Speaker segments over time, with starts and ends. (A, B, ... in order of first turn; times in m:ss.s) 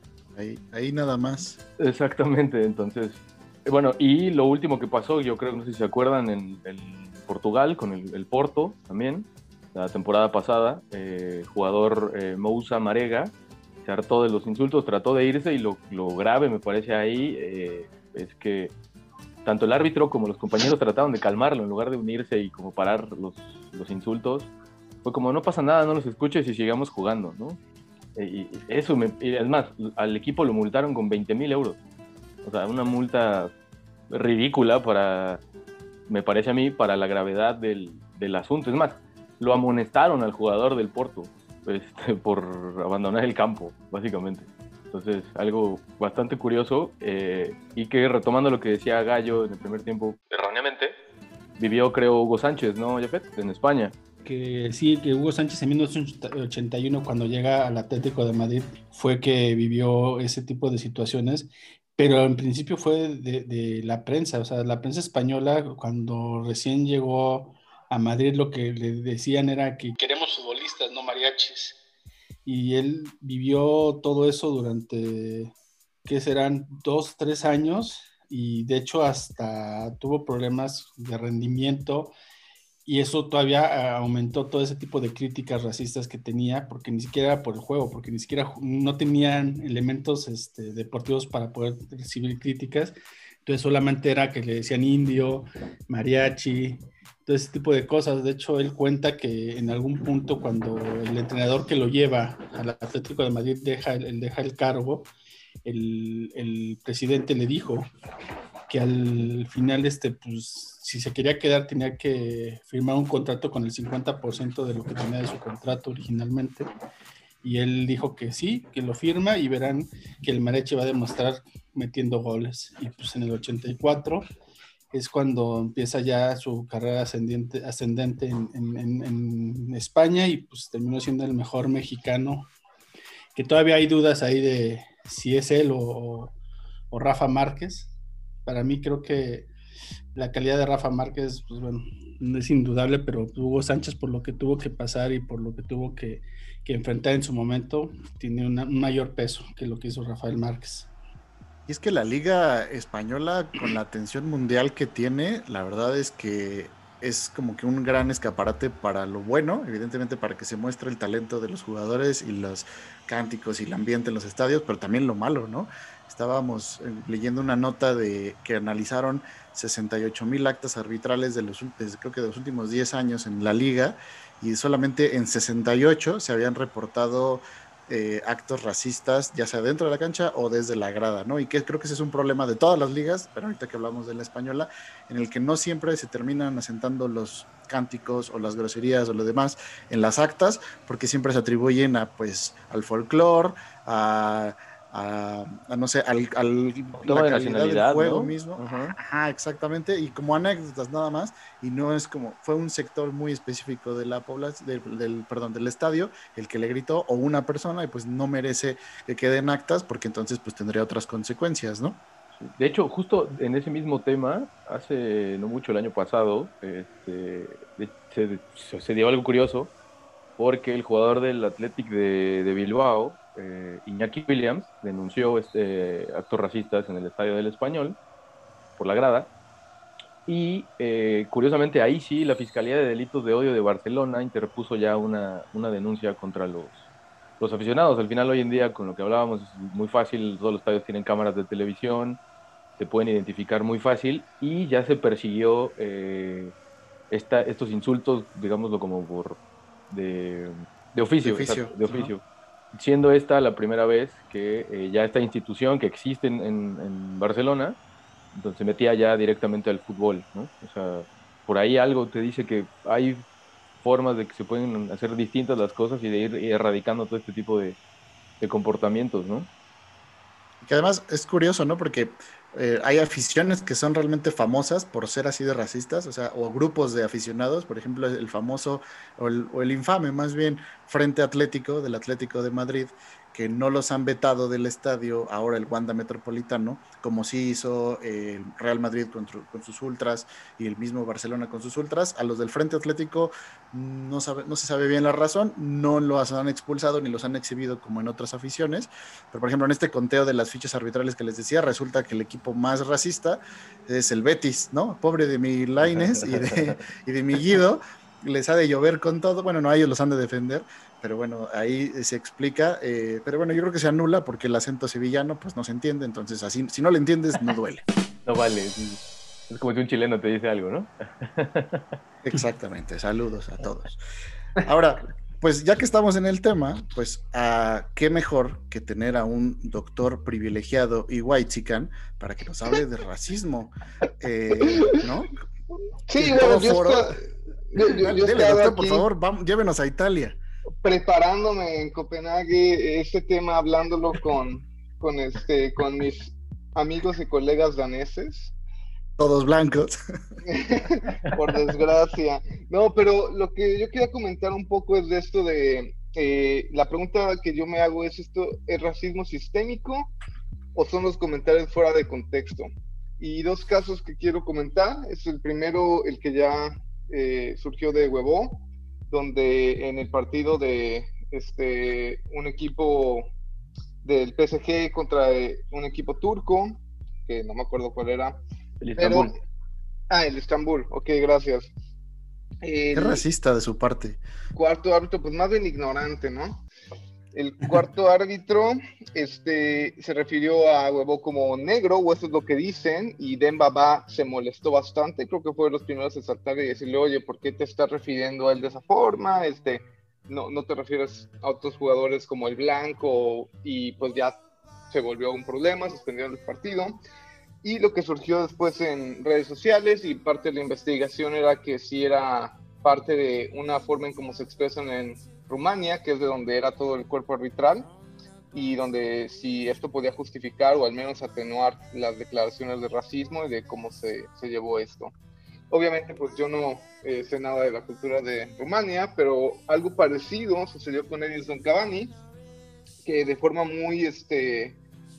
0:00.3-0:01.6 A
0:01.8-0:13.3 B
0:13.8-0:18.7 B
0:19.4-0:24.5 B
0:25.0-0:27.6 B
0:28.2-0:31.8 B
0:32.4-0:33.5 B
0:34.1-0:35.4 B
0:36.1-0:51.0 B
0:51.6-0:53.9 B
0:54.2-1:11.7 C
1:12.4-1:15.5 C
1:16.0-1:22.1 C
1:22.9-1:45.1 C
1:45.6-1:47.9 C
1:48.7-1:56.7 C
1:57.4-2:04.3 C
2:04.9-2:12.5 C
2:13.3-2:16.3 C
2:16.9-2:17.9 C
2:18.4-2:19.5 C
2:20.1-2:30.9 C
2:31.7-3:32.0 A
3:17.0-3:18.9 B
3:32.4-3:39.7 B
3:40.4-3:48.0 B
3:48.8-3:49.3 B
3:50.3-3:56.8 B
3:57.4-4:02.2 B
4:02.8-4:06.5 B
4:07.1-4:17.8 B
4:11.2-4:12.1 A
4:18.3-4:23.3 B
4:23.8-4:27.8 B
4:28.4-4:29.5 B
4:30.6-5:17.8 A
5:05.9-5:06.3 B
5:18.3-5:22.0 B
5:22.2-5:24.0 A
5:24.6-5:35.3 A
5:34.6-5:35.0 D
5:36.1-5:37.2 D
5:36.2-5:37.2 A
5:37.7-5:39.0 D
5:37.9-5:40.4 A
5:40.8-5:48.5 D
5:49.2-5:50.0 A
5:50.4-6:00.1 D
6:00.7-6:13.3 D
6:14.0-6:18.4 D
6:18.8-6:19.3 B
6:19.0-6:19.3 D
6:20.1-6:21.7 D
6:22.6-6:23.2 D
6:22.9-6:24.2 A
6:24.5-6:26.6 D
6:27.3-6:44.4 D
6:44.9-6:47.0 D
6:47.6-6:57.9 D
6:58.5-7:05.1 D
7:05.7-7:12.1 D
7:13.0-7:14.8 D